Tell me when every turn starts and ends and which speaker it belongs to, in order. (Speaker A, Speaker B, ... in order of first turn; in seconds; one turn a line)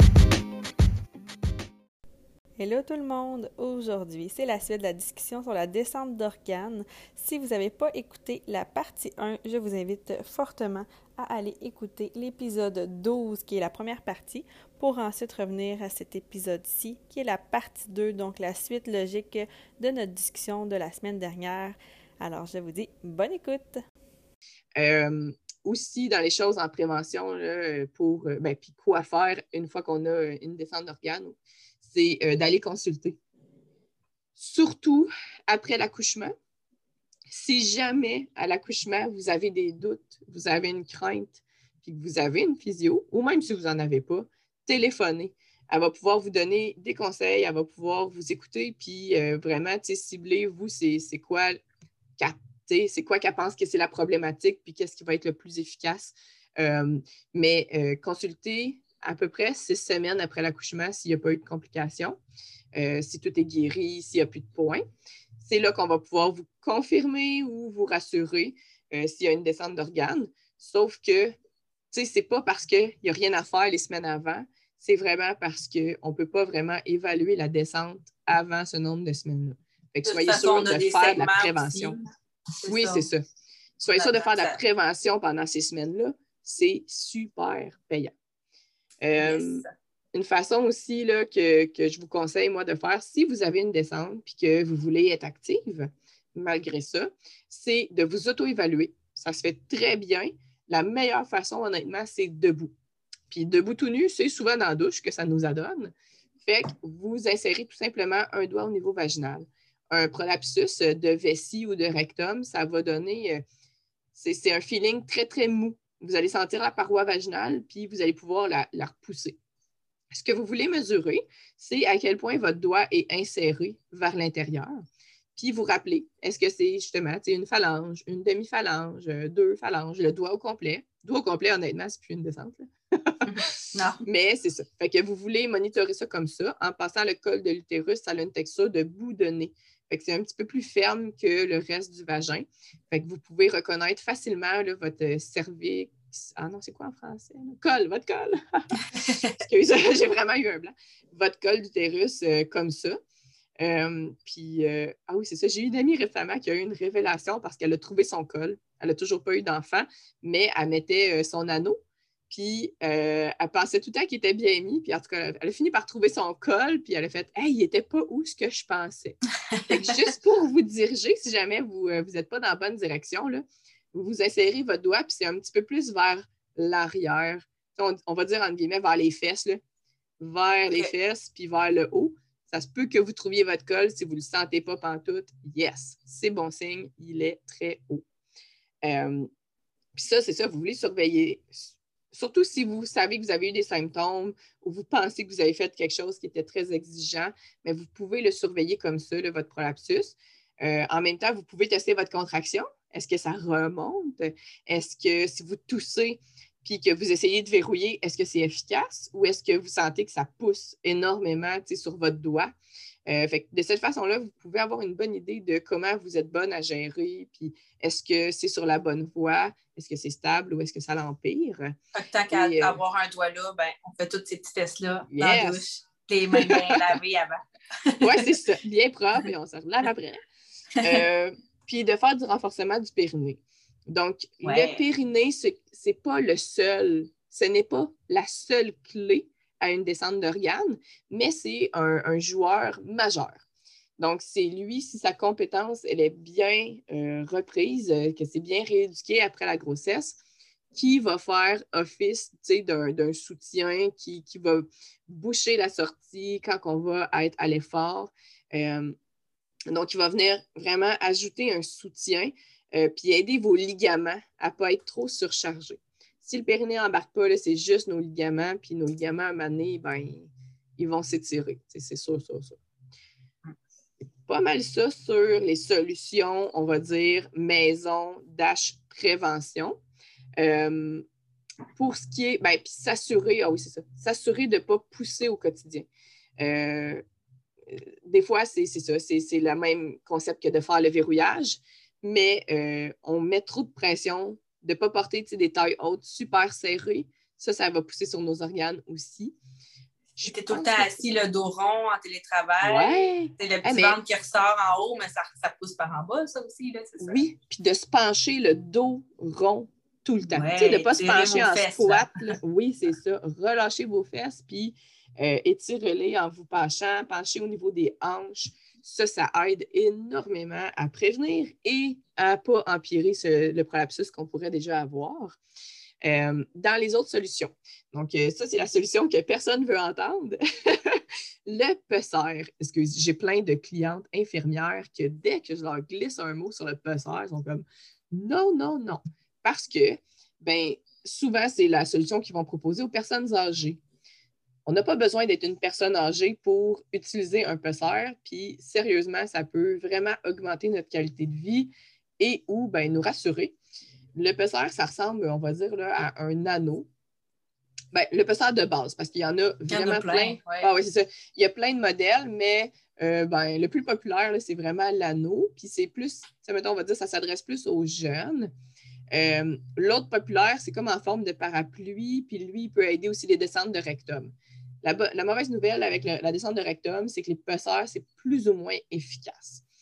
Speaker A: 2.6-23.8
Speaker B: 24.8-33.2
Speaker B: 34.4-36.3
Speaker B: 37.3-51.6
Speaker B: 52.2-62.2
Speaker B: 62.7-64.8
Speaker B: 65.4-71.3
Speaker B: 71.9-82.0
Speaker C: 80.0-82.0
Speaker C: 82.6-83.1
Speaker B: 82.7-83.2
Speaker C: 83.8-84.6
Speaker B: 83.8-88.1
Speaker B: 89.0-102.7
Speaker C: 89.2-89.7
Speaker B: 103.3-113.4
Speaker B: 114.1-119.4
Speaker B: 120.1-124.8
Speaker B: 125.4-133.3
Speaker C: 133.2-134.0
Speaker B: 134.1-148.7
Speaker C: 148.9-149.4
Speaker B: 149.3-153.0
Speaker B: 153.6-161.8
Speaker B: 162.3-179.6
Speaker B: 180.2-188.1
Speaker B: 188.8-189.3
Speaker B: 190.0-191.6
Speaker B: 192.1-212.5
Speaker B: 213.1-221.8
Speaker C: 221.9-228.3
Speaker B: 222.3-222.8
Speaker B: 225.1-225.6
Speaker B: 226.3-226.9
Speaker B: 228.0-230.2
Speaker B: 230.8-243.4
Speaker C: 234.4-234.8
Speaker B: 244.0-250.2
Speaker B: 250.7-258.9
Speaker B: 259.7-272.6
Speaker B: 274.3-279.8
Speaker B: 280.4-281.1
Speaker B: 281.8-285.9
Speaker B: 286.4-287.0
Speaker B: 287.7-299.4
Speaker B: 300.2-301.0
Speaker C: 300.2-307.2
Speaker B: 302.6-304.0
Speaker B: 307.0-325.4
Speaker C: 310.3-312.4
Speaker B: 326.0-343.8
Speaker B: 344.7-353.6
Speaker B: 354.2-356.9
Speaker B: 357.9-368.5
Speaker C: 359.7-360.7
Speaker B: 369.1-379.6